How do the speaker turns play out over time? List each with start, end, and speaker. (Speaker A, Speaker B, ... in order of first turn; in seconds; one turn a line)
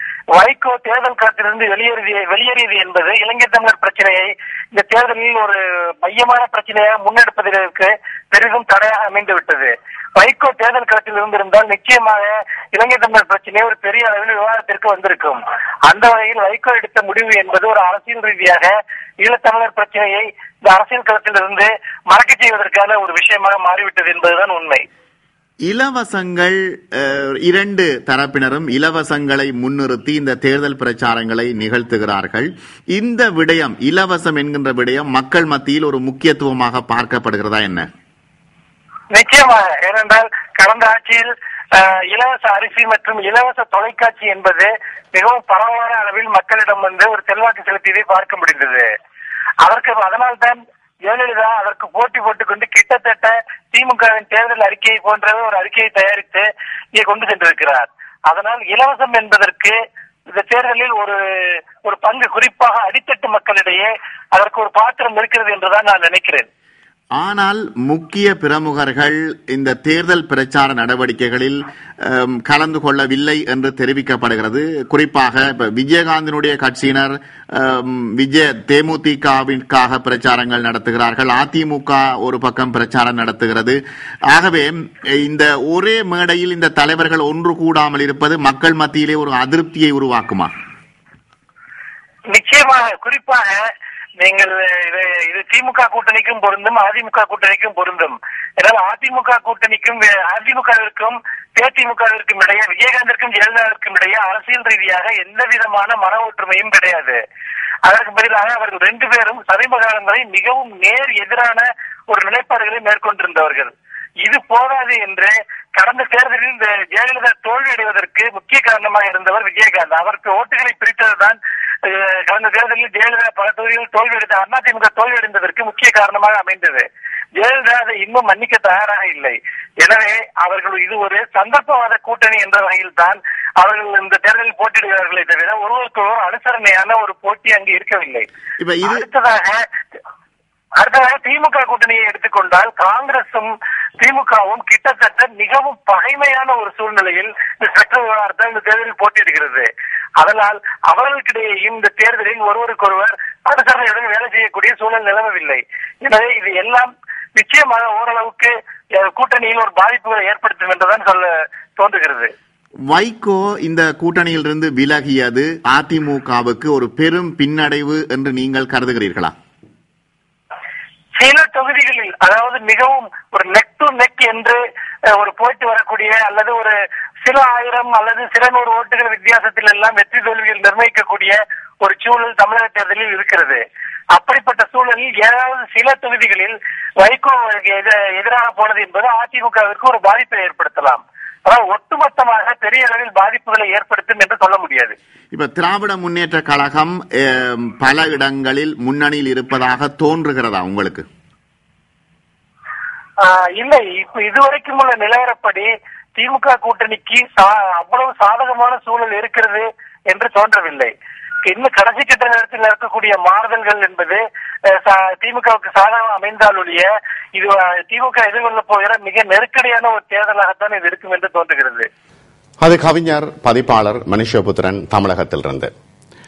Speaker A: 0.3-24.8
Speaker B: 25.6-37.9
Speaker A: 39.1-48.9
Speaker A: 49.6-59.8
Speaker A: 60.3-66.5
Speaker B: 67.2-83.8
Speaker B: 84.3-90.5
Speaker A: 92.3-93.6
Speaker A: 94.2-107.2
Speaker A: 107.8-113.7
Speaker A: 114.2-126.8
Speaker A: 127.4-138.2
Speaker B: 138.6-139.1
Speaker A: 138.8-139.6
Speaker A: 140.8-149.7
Speaker A: 150.2-162.3
Speaker B: 162.9-169.3
Speaker A: 171.2-174.6
Speaker A: 175.2-183.6
Speaker A: 184.1-194.9
Speaker B: 195.3-201.0
Speaker A: 203.2-210.9
Speaker A: 211.4-221.8
Speaker B: 222.6-225.7